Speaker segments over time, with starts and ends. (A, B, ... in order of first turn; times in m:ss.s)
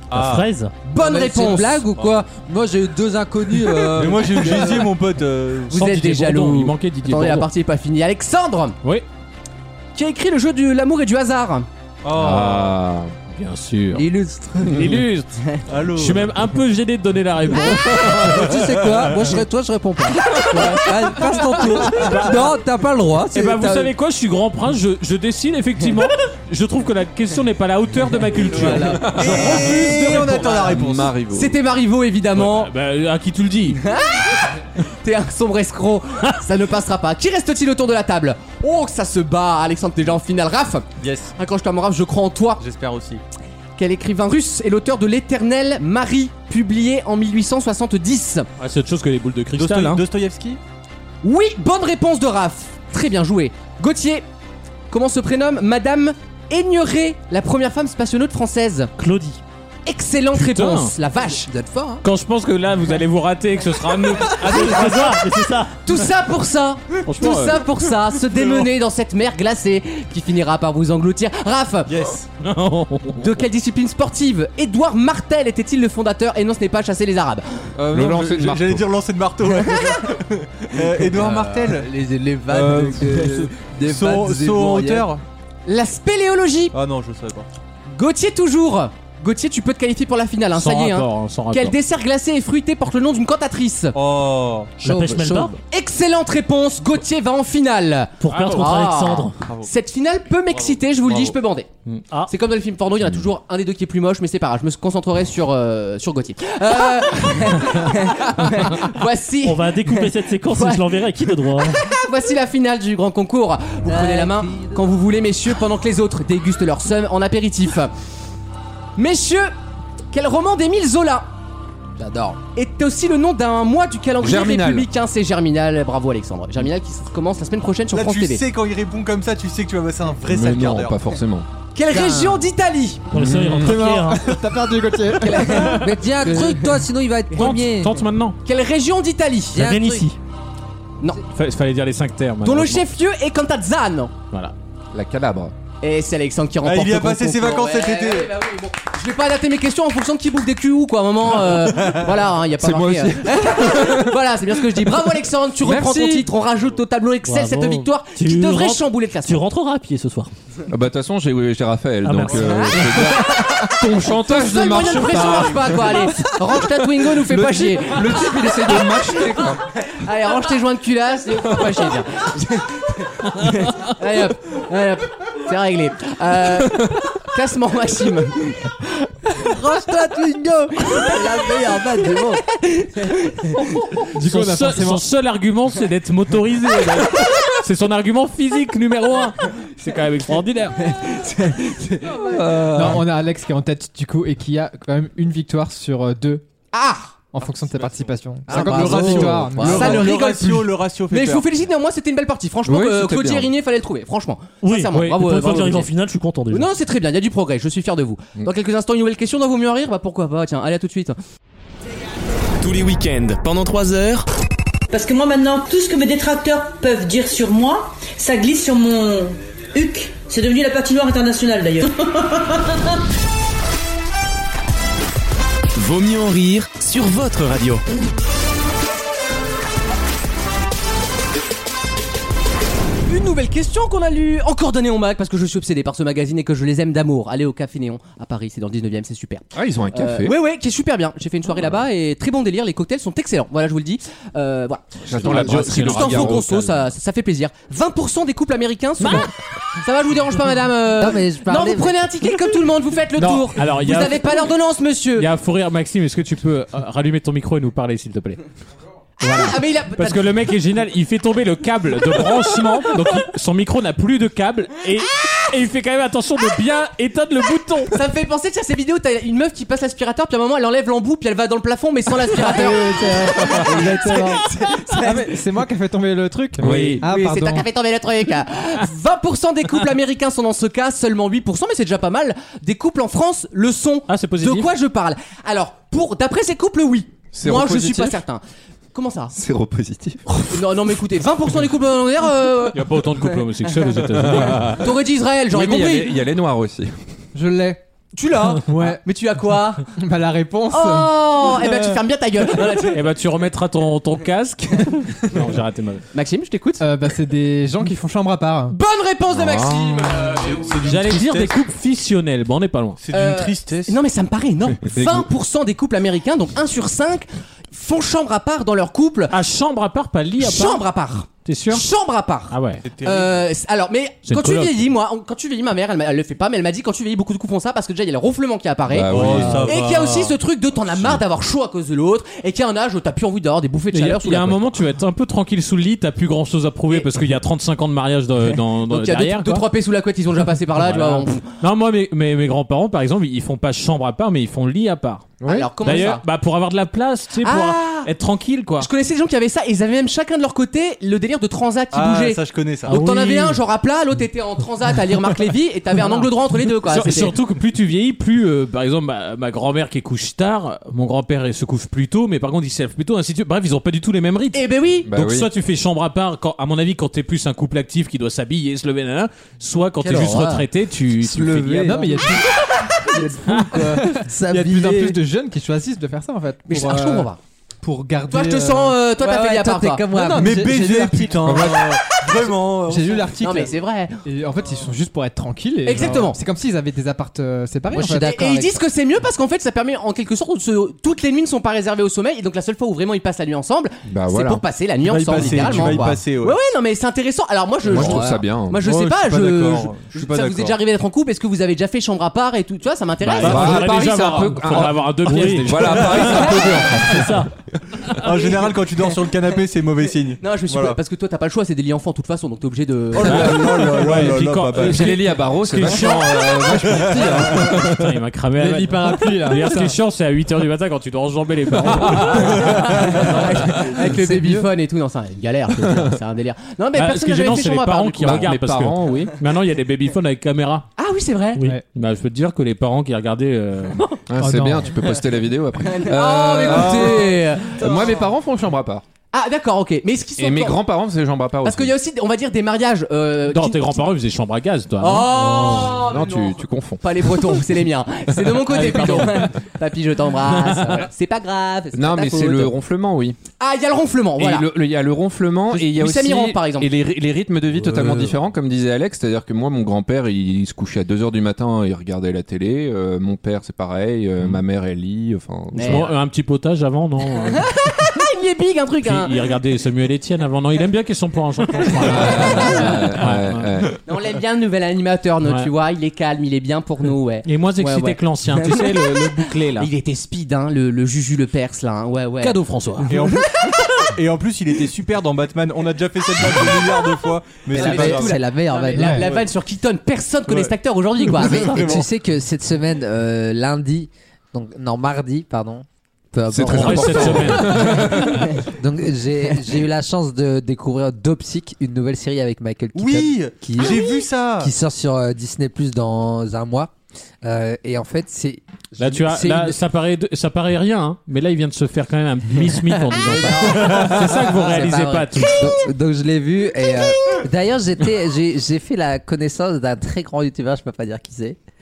0:00.1-0:00.5 A
0:00.1-0:00.7 B
0:00.8-0:01.8 C
0:00.9-0:04.9 D
0:01.9-0:02.2 A
0:03.8-0:05.8 A
0:05.7-0:08.8 C
0:05.7-0:07.5 E
0:09.9-0:11.7 C
0:12.0-0:12.8 A
0:12.1-0:13.1 F
0:13.3-0:14.1 E
0:13.9-0:14.9 D
0:14.6-0:15.4 E
0:14.7-0:15.0 F
0:15.7-0:16.4 A
0:15.9-0:18.4 E
0:18.0-0:23.9 D
0:18.5-0:19.3 A
0:20.5-0:20.8 E
0:21.8-0:22.5 E
0:23.3-0:30.4 E
0:28.5-0:31.2 A
0:28.6-0:30.7 C
0:29.0-0:31.6 F
0:31.3-0:32.7 C
0:32.4-0:33.8 E
0:33.8-0:34.5 C
0:35.0-0:42.6 C
0:41.0-0:41.3 A
0:42.6-0:43.2 A
0:43.8-0:48.5 C
0:48.6-0:50.0 E
0:49.5-0:50.6 A
0:51.2-0:54.2 C
0:54.9-0:58.9 C
0:59.0-0:59.4 B
0:59.8-1:01.5 C
1:00.3-1:00.9 E
1:01.4-1:02.0 D
1:02.0-1:05.2 E
1:04.4-1:05.8 B
1:04.5-1:05.1 A
1:05.8-1:12.0 C
1:07.0-1:07.6 E
1:08.3-1:08.7 A
1:11.9-1:12.3 A
1:12.4-1:13.3 E
1:13.1-1:17.7 C
1:17.8-1:18.8 F
1:17.9-1:21.9 A
1:21.0-1:25.1 D
1:22.5-1:25.2 A
1:25.6-1:26.7 C
1:26.7-1:27.5 A
1:27.9-1:34.0 C
1:30.5-1:31.7 E
1:33.9-1:34.7 A
1:34.8-1:35.5 B
1:34.8-1:35.6 D
1:35.7-1:41.7 C
1:38.2-1:39.4 B
1:38.3-1:38.5 A
1:39.4-1:39.7 A
1:40.5-1:41.4 A
1:42.3-1:50.8 C
1:49.4-1:51.8 B
1:51.5-1:57.9 C
1:53.8-1:54.8 D
1:59.0-1:59.5 C
2:00.1-2:01.3 C
2:02.0-2:02.4 D
2:02.5-2:08.4 C
2:04.2-2:04.9 F
2:07.9-2:11.0 A
2:10.2-2:11.5 F
2:11.7-2:13.1 C
2:11.9-2:12.5 D
2:13.1-2:14.4 B
2:13.1-2:13.9 F
2:13.5-2:16.0 G
2:15.2-2:16.6 C
2:15.5-2:18.0 D
2:17.3-2:18.4 E
2:18.4-2:19.6 C
2:19.5-2:20.1 D
2:19.6-2:20.1 B
2:21.3-2:22.8 E
2:22.4-2:24.1 C
2:24.9-2:25.5 F
2:25.8-2:39.4 C
2:26.6-2:28.3 A
2:32.6-2:34.2 F
2:35.6-2:36.3 F
2:37.2-2:40.3 B
2:40.7-2:46.3 F
2:42.0-2:43.3 B
2:42.4-2:42.9 C
2:44.0-2:58.7 C
2:47.1-2:49.6 F
2:59.3-3:02.4 D
3:02.8-3:03.5 C
3:04.1-3:05.0 G
3:04.1-3:10.8 E
3:10.8-3:12.4 C
3:12.2-3:13.0 F
3:12.7-3:16.4 G
3:16.7-3:17.2 C
3:17.3-3:20.0 G
3:17.7-3:18.1 A
3:18.5-3:20.0 D
3:18.7-3:21.4 A
3:18.7-3:19.4 E
3:19.6-3:25.9 C
3:22.6-3:23.5 F
3:24.6-3:26.7 B
3:26.5-3:31.2 C
3:32.6-3:34.3 H
3:34.9-3:42.7 I
3:45.7-3:47.8 H
3:53.0-4:15.3 C
3:59.5-4:00.4 F
4:05.0-4:06.9 F
4:05.2-4:06.4 E
4:11.0-4:12.0 D
4:13.2-4:14.2 E
4:15.2-4:18.4 E
4:19.2-4:28.0 E
4:19.2-4:20.3 C
4:27.9-4:35.3 C
4:32.3-4:37.6 G
4:36.6-4:37.1 F
4:36.6-4:37.0 E
4:37.0-4:48.4 C
4:44.1-4:44.7 E
4:47.3-4:48.2 F
4:48.9-4:49.3 C
4:49.3-4:50.5 F
4:50.4-4:53.4 C
4:52.7-4:54.8 E
4:54.2-4:54.8 F
4:54.3-4:56.2 C
4:55.5-4:57.0 F
4:57.3-4:57.8 G
4:58.1-4:59.9 C
4:58.6-4:59.0 G
5:00.0-5:01.2 G
5:00.7-5:03.0 C
5:02.9-5:06.0 E
5:06.1-5:06.8 C
5:06.8-5:08.8 G
5:08.7-5:10.7 C
5:09.3-5:10.2 F
5:10.3-5:11.6 A
5:10.8-5:13.0 E
5:13.0-5:14.0 A
5:13.1-5:19.3 C
5:19.3-5:20.8 E
5:20.4-5:34.8 C
5:21.4-5:21.8 E
5:22.5-5:22.8 E
5:22.8-5:23.4 A
5:24.2-5:24.8 E
5:28.9-5:29.7 F
5:29.1-5:30.4 A
5:30.9-5:31.2 F
5:33.9-5:39.6 E
5:38.8-5:41.4 C
5:40.8-5:48.9 E
5:45.4-5:46.2 C
5:47.4-5:48.1 C
5:48.8-5:57.3 C
5:51.9-5:53.0 A
5:52.9-5:53.6 E
5:56.8-6:12.2 E
6:04.5-6:05.1 C
6:05.0-6:05.5 F
6:10.0-6:10.7 D
6:11.4-6:12.3 D
6:11.6-6:17.3 G
6:13.1-6:15.2 D
6:13.5-6:13.8 E
6:16.7-6:17.4 C
6:17.8-6:19.0 G
6:18.3-6:20.4 C
6:19.2-6:21.0 D
6:20.3-6:21.7 G
6:20.4-6:23.4 A
6:21.5-6:21.7 F
6:22.9-6:23.7 G
6:23.4-6:24.2 C
6:24.2-6:28.3 G
6:25.8-6:26.4 C
6:27.9-6:28.8 D
6:28.0-6:44.0 C
6:34.1-6:34.6 F
6:35.0-6:36.6 A
6:35.5-6:36.0 F
6:37.8-6:38.8 F
6:38.0-6:38.4 D
6:38.8-6:40.7 A
6:43.2-6:46.8 E
6:43.4-6:47.3 F
6:45.2-6:46.4 B
6:46.3-6:47.0 C
6:47.0-6:47.5 B
6:48.2-6:51.0 A
6:48.2-6:48.6 C
6:50.4-6:54.0 C
6:53.1-6:55.3 A
6:53.3-7:03.8 E
6:54.1-6:58.1 F
6:56.7-6:57.7 A
6:58.6-7:00.0 G
7:02.9-7:08.5 C
7:04.3-7:04.6 G
7:06.9-7:10.9 E
7:08.2-7:09.3 F
7:11.0-7:11.6 C
7:11.9-7:14.1 E
7:14.3-7:19.0 F
7:14.4-7:14.9 G
7:15.8-7:18.3 C
7:16.7-7:17.4 A
7:19.3-7:20.9 C
7:20.4-7:21.9 F
7:21.6-7:24.0 C
7:23.5-7:25.3 E
7:25.0-7:32.7 C
7:25.3-7:27.5 F
7:28.7-7:29.5 E
7:30.6-7:31.0 E
7:31.9-7:33.4 F
7:33.6-7:34.7 C
7:34.4-7:46.1 F
7:35.7-7:36.9 C
7:45.7-7:47.7 E
7:45.7-7:46.1 C
7:47.5-7:49.3 C
7:49.0-7:53.7 E
7:52.0-7:54.0 F
7:52.1-7:52.9 C
7:54.0-7:59.2 C
7:55.4-7:55.7 E
7:57.4-7:59.9 E
7:59.7-8:03.3 C
8:02.4-8:03.2 E
8:03.1-8:03.5 A
8:04.1-8:08.4 A
8:07.7-8:12.0 C
8:07.7-8:09.3 D
8:08.9-8:09.2 G
8:10.5-8:10.7 A
8:11.4-8:26.9 D
8:11.4-8:12.0 A
8:16.5-8:18.6 F
8:16.6-8:18.2 E
8:22.9-8:24.7 A
8:27.4-8:29.8 D
8:29.0-8:35.6 E
8:33.1-8:41.6 D